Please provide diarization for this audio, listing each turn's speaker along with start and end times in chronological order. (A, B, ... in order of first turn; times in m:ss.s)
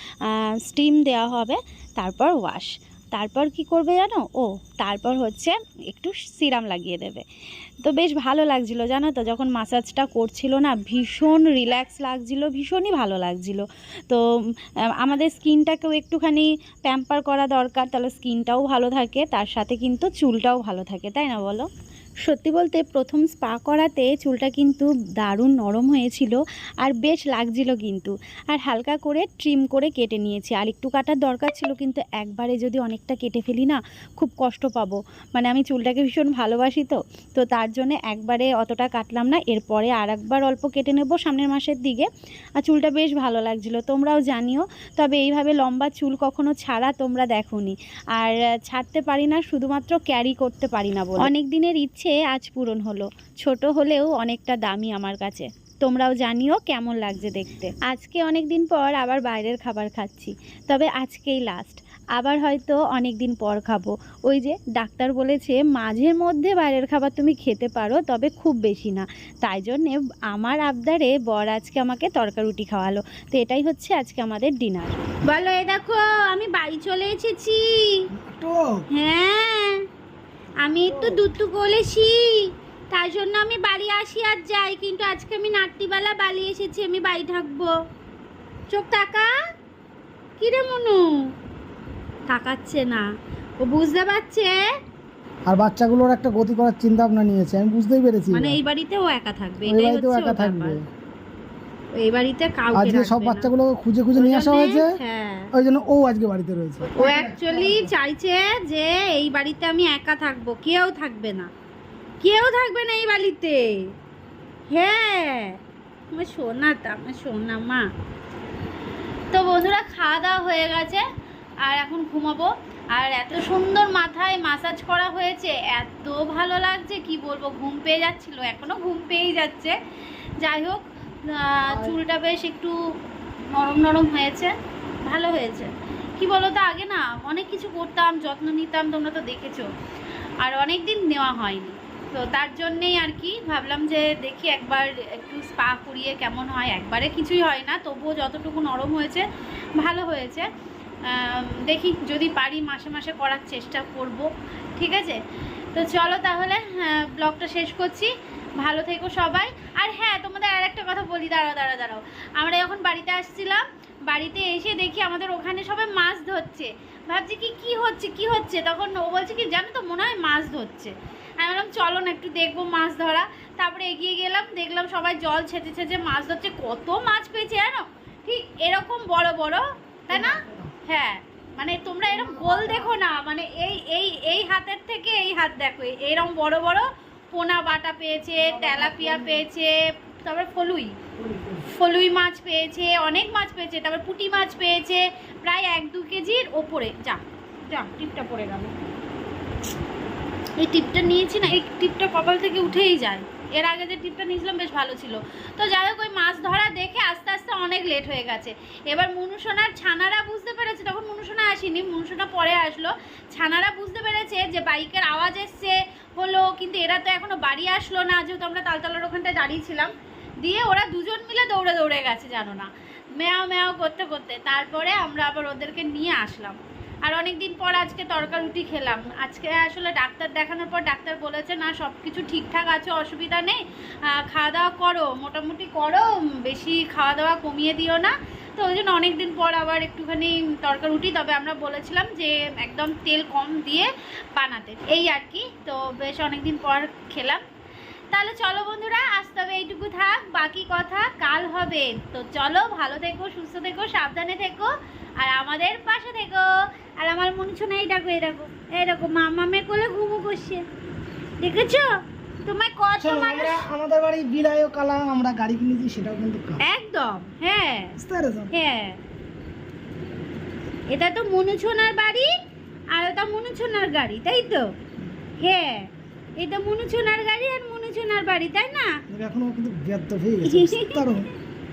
0:00.3-0:07.2 A
0:07.8-0:14.2 A
0:15.0-0:21.7 A
0:22.2-0:42.1 A
0:42.6-1:18.0 A
1:18.2-1:18.8 B
1:18.9-1:19.8 A
1:20.6-1:27.7 A
1:20.6-1:21.2 B
1:28.7-1:29.3 A
1:30.4-1:31.0 A
1:32.3-1:33.1 A
1:33.6-1:34.6 A
1:35.4-1:38.6 B
1:38.3-1:40.8 A
1:39.6-1:40.8 B
1:42.0-1:43.5 A
1:42.7-1:45.0 B
1:44.2-1:45.5 A
1:45.5-1:47.9 B
1:46.9-1:51.5 A
1:52.2-1:53.8 A
1:54.7-1:55.6 A
1:56.1-1:57.9 A
1:59.3-2:01.0 A
2:01.6-2:09.8 A
2:10.4-2:12.7 A
2:11.7-2:11.9 B
2:13.5-2:14.5 A
2:15.0-2:19.7 A
2:20.4-2:29.2 A
2:29.8-2:30.5 A
2:31.1-2:35.2 A
2:35.7-3:11.0 A
3:00.1-3:00.7 B
3:02.1-3:02.9 B
3:08.4-3:09.4 B
3:11.2-3:11.7 B
3:11.7-3:18.7 A
3:20.6-3:39.9 A
3:40.4-4:07.4 A
4:08.1-4:20.6 A
4:21.4-4:21.9 A
4:22.4-4:23.6 A
4:23.0-4:26.6 B
4:26.6-4:27.9 A
4:28.0-4:28.5 B
4:28.5-4:29.0 A
4:30.9-4:32.3 A
4:32.9-4:34.7 A
4:35.4-4:35.9 A
4:36.4-4:38.9 A
4:39.1-4:41.3 B
4:40.4-4:41.2 A